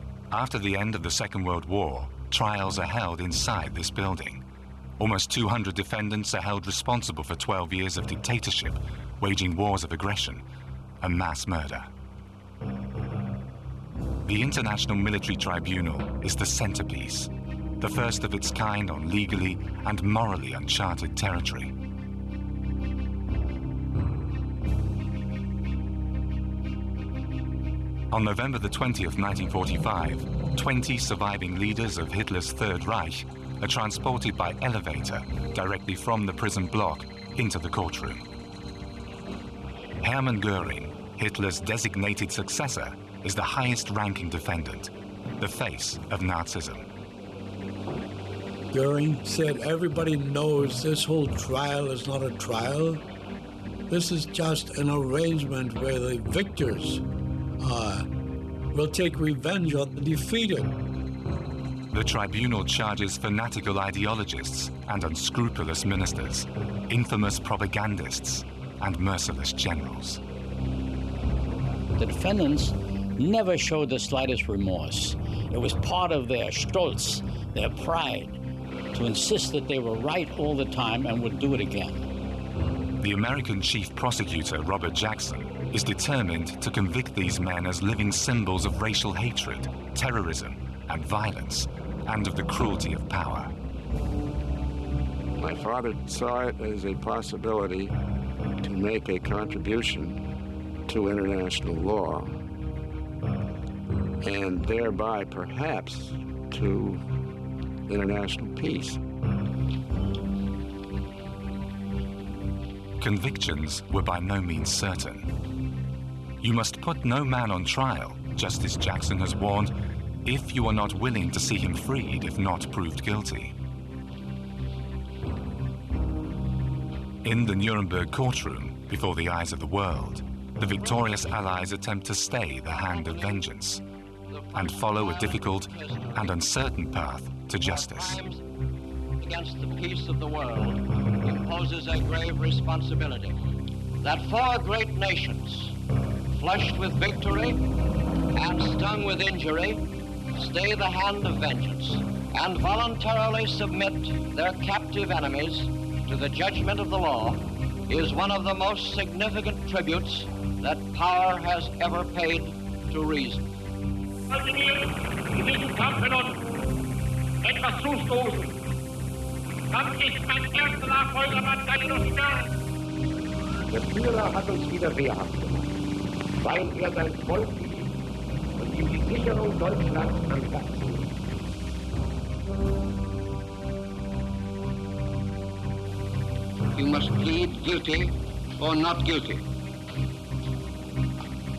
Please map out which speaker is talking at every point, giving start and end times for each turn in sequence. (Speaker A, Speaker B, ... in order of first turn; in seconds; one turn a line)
Speaker A: 0.3-4.5
Speaker A: 5.0-10.4
Speaker A: 11.0-11.9
Speaker A: 14.2-21.8
Speaker A: 28.1-38.2
Speaker A: 40.0-46.9
Speaker B: 48.7-53.0
Speaker B: 53.9-57.0
Speaker B: 57.6-58.1
Speaker B: 58.7-60.8
Speaker A: 61.9-70.2
Speaker C: 72.0-78.4
Speaker C: 78.9-82.1
Speaker A: 83.0-93.5
Speaker D: 95.4-97.9
Speaker D: 98.6-100.2
Speaker D: 100.9-102.3
Speaker D: 104.2-107.0
Speaker D: 107.9-109.0
Speaker A: 113.0-115.3
Speaker A: 116.4-119.7
Speaker A: 120.2-123.5
Speaker A: 127.2-133.8
Speaker E: 134.3-136.2
Speaker A: 134.5-138.2
Speaker E: 137.6-138.4
Speaker E: 139.2-143.4
Speaker E: 144.0-145.8
Speaker E: 146.3-147.7
Speaker E: 148.3-163.5
Speaker F: 164.3-166.4
Speaker F: 167.4-168.6
Speaker F: 169.7-172.5
Speaker G: 173.7-175.7
Speaker G: 176.4-177.9
Speaker G: 178.6-181.1
Speaker E: 186.7-189.4